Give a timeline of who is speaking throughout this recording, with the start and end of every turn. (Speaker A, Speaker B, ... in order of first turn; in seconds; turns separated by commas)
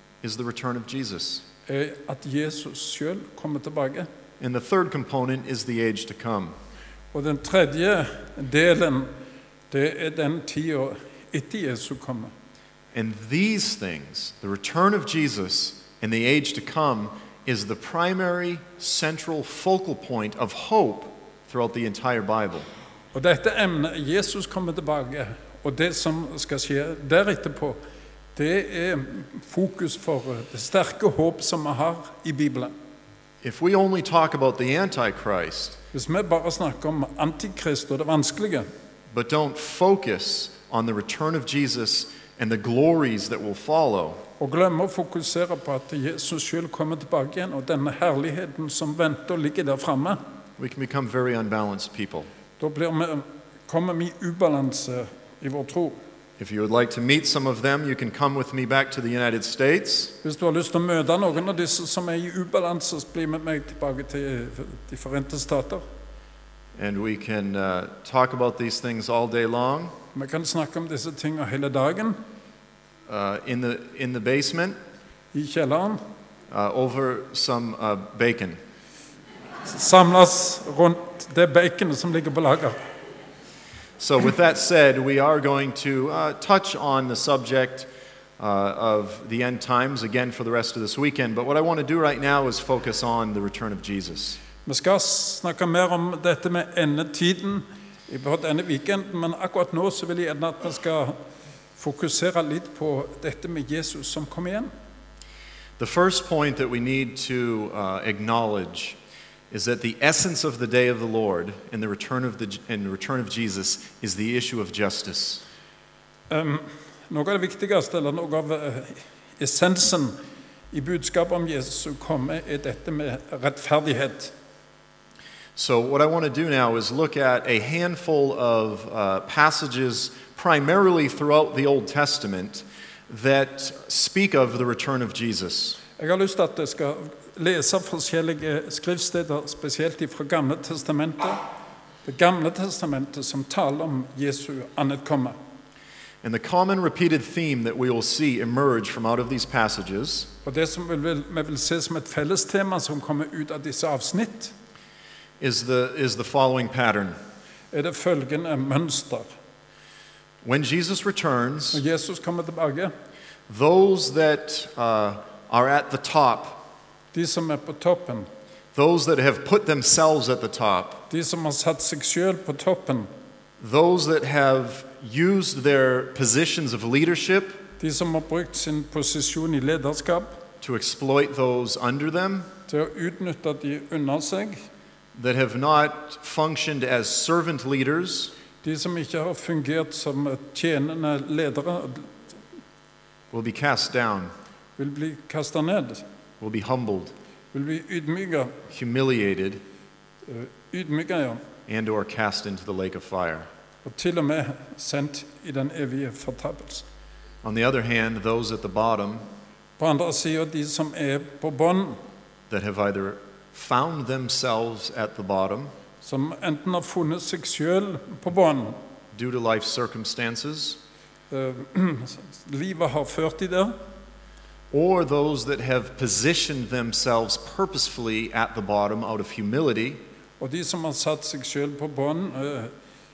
Speaker A: 0.2-1.4, Speaker B: 1.7-4.1, Speaker A: 4.4-6.5, Speaker B: 7.1-9.1, Speaker B: 9.7-12.3, Speaker A: 12.9-22.7, Speaker B: 23.1-27.8, Speaker B: 28.3-32.7, Speaker A: 33.4-35.8, Speaker B: 35.9-38.7, Speaker A: 39.1-44.2, Speaker B: 44.4-50.2, Speaker A: 50.6-52.3, Speaker B: 52.6-56.0, Speaker A: 56.4-60.2, Speaker B: 60.2-65.8, Speaker A: 66.8-70.0, Speaker B: 70.1-72.2, Speaker A: 73.1-74.8, Speaker B: 75.3-76.0, Speaker A: 76.5-78.6, Speaker B: 79.6-82.8, Speaker A: 84.0-87.9, Speaker A: 88.4-94.4, Speaker B: 94.6-101.2, Speaker B: 101.8-104.7, Speaker A: 105.8-109.0, Speaker A: 109.5-115.4, Speaker B: 116.3-120.2, Speaker B: 120.7-124.3, Speaker A: 125.6-135.8, Speaker B: 136.0-141.4, Speaker B: 142.1-145.4, Speaker A: 146.2-150.3, Speaker B: 150.4-154.5, Speaker A: 155.4-157.2, Speaker B: 157.7-159.3, Speaker A: 160.4-161.8, Speaker B: 161.7-162.9, Speaker A: 163.5-166.6, Speaker B: 167.1-168.3, Speaker A: 168.8-171.1, Speaker B: 171.1-173.1, Speaker A: 173.6-177.6, Speaker B: 177.8-180.4, Speaker A: 180.6-182.5, Speaker B: 182.7-184.6, Speaker A: 185.1-188.3, Speaker B: 188.6-192.2, Speaker A: 193.3-194.3, Speaker B: 194.8-196.0, Speaker A: 196.4-197.1, Speaker B: 197.5-198.6, Speaker A: 198.7-199.6, Speaker B: 200.2-201.4, Speaker A: 201.7-203.5, Speaker B: 203.8-206.9, Speaker A: 207.4-209.3, Speaker B: 209.8-212.0, Speaker A: 212.5-215.7, Speaker B: 216.0-218.8, Speaker A: 219.1-220.8, Speaker B: 221.3-223.8, Speaker A: 224.7-230.0, Speaker B: 230.4-232.7